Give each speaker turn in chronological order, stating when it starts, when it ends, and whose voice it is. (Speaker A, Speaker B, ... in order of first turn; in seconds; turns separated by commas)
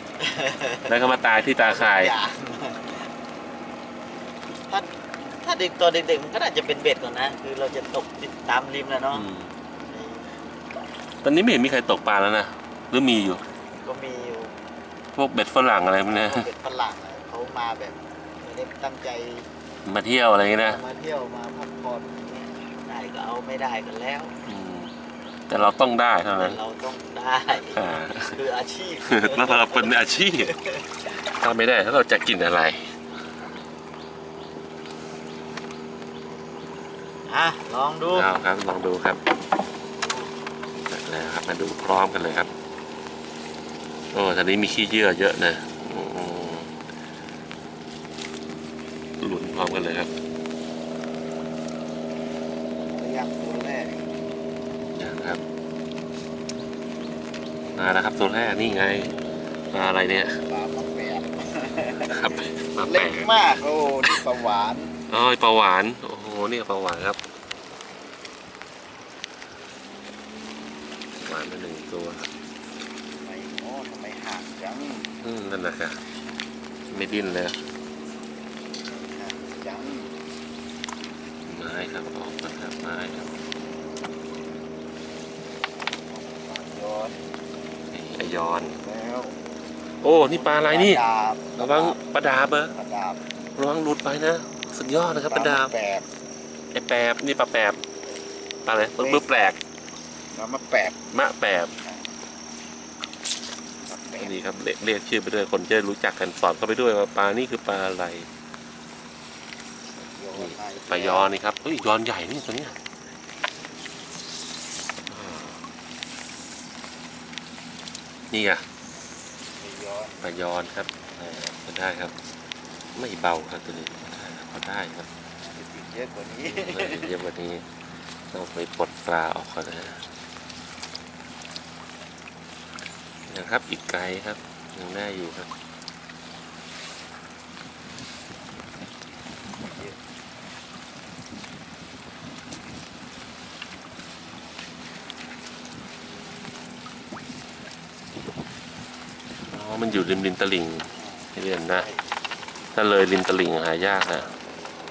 Speaker A: 0.2-0.9, Speaker B: 0.9-2.1, Speaker A: 1.5-3.1, Speaker A: 4.7-9.3, Speaker B: 9.1-9.5, Speaker A: 9.8-10.4, Speaker B: 11.2-13.4, Speaker A: 13.8-14.6, Speaker B: 15.2-16.5, Speaker A: 16.1-19.5, Speaker B: 19.9-20.8, Speaker A: 20.6-24.4, Speaker B: 24.5-24.9, Speaker B: 25.5-26.6, Speaker A: 26.3-31.1, Speaker B: 27.7-28.4, Speaker B: 29.1-30.5, Speaker B: 31.1-32.9, Speaker A: 37.3-38.3, Speaker B: 38.1-39.2, Speaker B: 40.9-42.5, Speaker B: 44.1-46.8, Speaker B: 49.2-50.1, Speaker A: 52.9-54.0, Speaker B: 55.0-55.4, Speaker B: 57.8-59.2, Speaker B: 59.7-60.4, Speaker A: 60.4-65.0, Speaker B: 62.0-63.3, Speaker B: 65.1-67.2, Speaker B: 71.2-72.3, Speaker A: 73.2-75.1, Speaker B: 75.2-76.0, Speaker B: 76.9-77.6, Speaker A: 78.9-80.2, Speaker B: 81.5-83.3, Speaker A: 86.1-87.2, Speaker B: 87.9-88.8, Speaker A: 88.8-89.4, Speaker B: 90.0-91.0, Speaker A: 90.2-92.0, Speaker B: 91.6-92.7, Speaker A: 92.7-93.2, Speaker B: 93.6-95.7, Speaker A: 95.0-96.1, Speaker B: 96.7-97.8, Speaker B: 98.7-99.6, Speaker A: 99.0-99.5, Speaker A: 100.3-101.1, Speaker B: 101.1-101.7, Speaker A: 101.8-102.1, Speaker A: 103.9-104.4, Speaker B: 104.2-108.3, Speaker A: 110.0-111.3, Speaker B: 110.3-112.8, Speaker B: 115.1-115.6, Speaker B: 118.3-118.7, Speaker A: 119.6-120.3, Speaker B: 120.2-122.2, Speaker B: 123.0-125.1, Speaker A: 125.4-127.1, Speaker B: 126.5-127.7, Speaker B: 128.3-130.1, Speaker B: 133.3-135.5, Speaker A: 139.6-140.0, Speaker B: 149.5-151.9, Speaker A: 150.9-152.0, Speaker B: 152.8-154.3